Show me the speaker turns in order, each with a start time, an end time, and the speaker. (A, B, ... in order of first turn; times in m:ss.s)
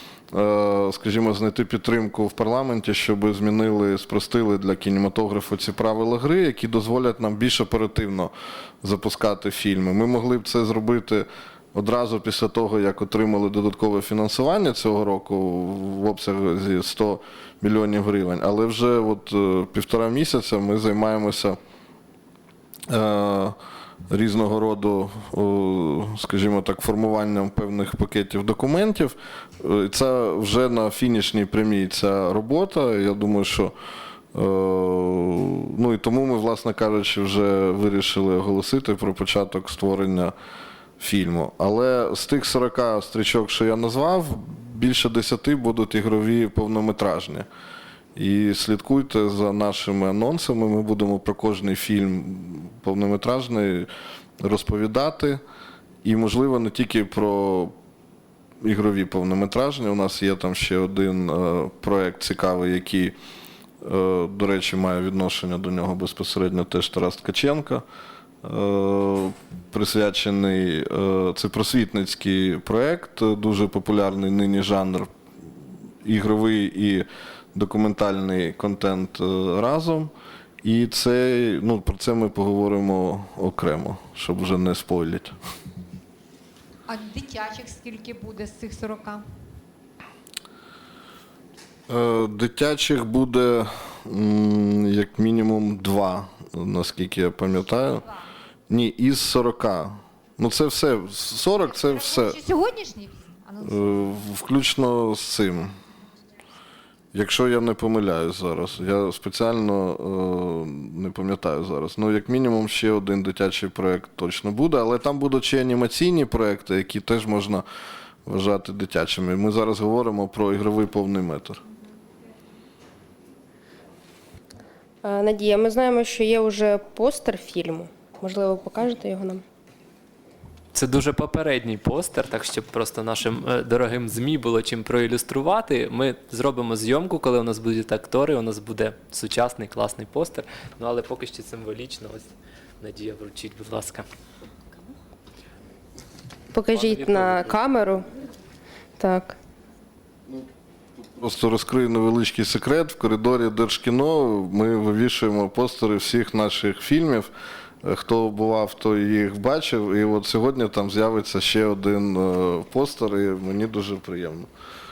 0:00.3-0:21.6 A
0:22.9-0:23.6 A
0:24.1-0:33.7 A
0:34.3-0:40.3 A
0:41.0-0:47.5 A
0:48.2-0:53.9 A
0:54.4-0:55.4 A
0:56.0-0:57.7 A
0:58.6-1:03.1 A
1:03.8-1:07.8 A
1:08.4-1:15.1 A
1:16.0-1:20.1 A
1:20.6-1:25.4 A
1:26.9-1:29.3 B
1:31.9-1:38.0 A
1:37.5-1:38.3 B
1:38.7-1:42.3 A
1:41.6-1:44.3 B
1:43.6-1:45.7 A
1:47.1-1:57.6 A
1:58.2-2:01.6 A
2:05.0-2:09.4 C
2:10.7-2:24.0 D
2:26.5-2:28.0 C
2:26.7-2:27.6 D
2:29.0-2:29.4 C
2:31.1-2:37.3 A
2:37.8-2:44.5 A